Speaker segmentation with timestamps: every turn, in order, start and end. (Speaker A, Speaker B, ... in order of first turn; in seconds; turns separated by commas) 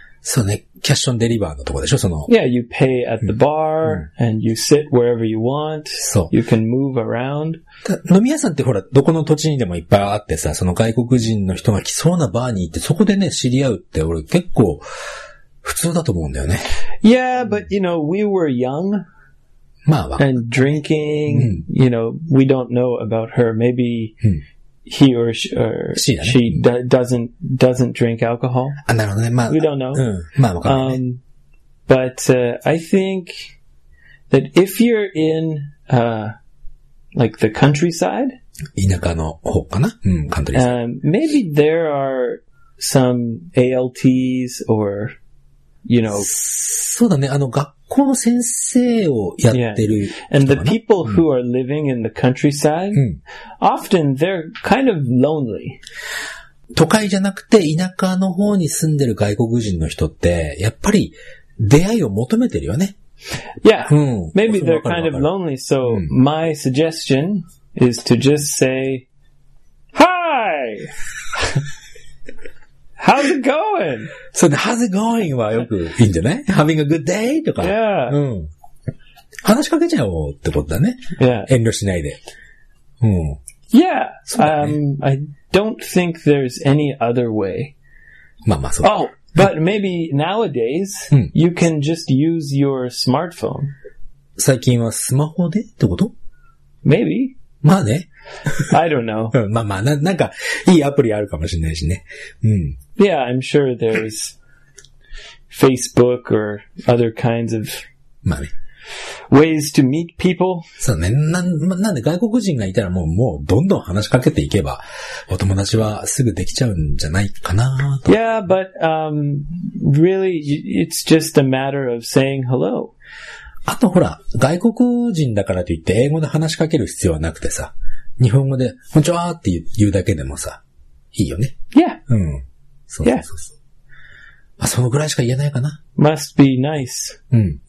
Speaker A: 0.2-2.3, Speaker B: 2.3-7.6, Speaker A: 6.0-6.3, Speaker A: 7.8-14.8, Speaker A: 15.6-16.7, Speaker B: 17.0-19.1, Speaker A: 19.9-20.4, Speaker B: 20.2-24.2, Speaker A: 21.3-21.6, Speaker B: 24.9-28.8, Speaker A: 25.9-26.6, Speaker A: 28.9-31.0, Speaker B: 29.5-30.1, Speaker B: 30.6-31.2, Speaker B: 31.9-33.5, Speaker B: 34.3-36.4, Speaker B: 37.1-38.4, Speaker A: 38.8-40.7, Speaker B: 40.5-45.2, Speaker B: 45.8-46.3, Speaker A: 46.2-51.2, Speaker B: 49.5-53.1, Speaker A: 52.9-53.2, Speaker B: 53.6-55.8, Speaker A: 56.7-63.0, Speaker B: 63.6-69.1, Speaker A: 63.9-65.3, Speaker A: 65.9-66.1, Speaker B: 69.9-71.6, Speaker B: 73.0-74.1, Speaker A: 74.3-78.5, Speaker B: 77.6-78.2, Speaker A: 79.4-82.2, Speaker B: 81.2-81.5, Speaker A: 83.0-83.4, Speaker B: 83.7-87.7, Speaker A: 84.3-84.8, Speaker A: 88.5-88.9, Speaker B: 88.8-93.7, Speaker A: 94.4-96.1, Speaker B: 96.8-97.4, Speaker A: 97.6-98.7, Speaker B: 98.6-99.4, Speaker A: 99.3-102.8, Speaker B: 103.0-104.4, Speaker B: 105.5-107.8, Speaker A: 108.2-108.5, Speaker B: 109.3-110.7, Speaker A: 110.8-118.1, Speaker B: 118.0-122.9, Speaker A: 123.7-130.6, Speaker A: 131.1-131.6, Speaker B: 131.7-132.0, Speaker A: 132.1-133.6, Speaker A: 134.6-135.8, Speaker B: 135.9-137.2, Speaker A: 137.3-137.6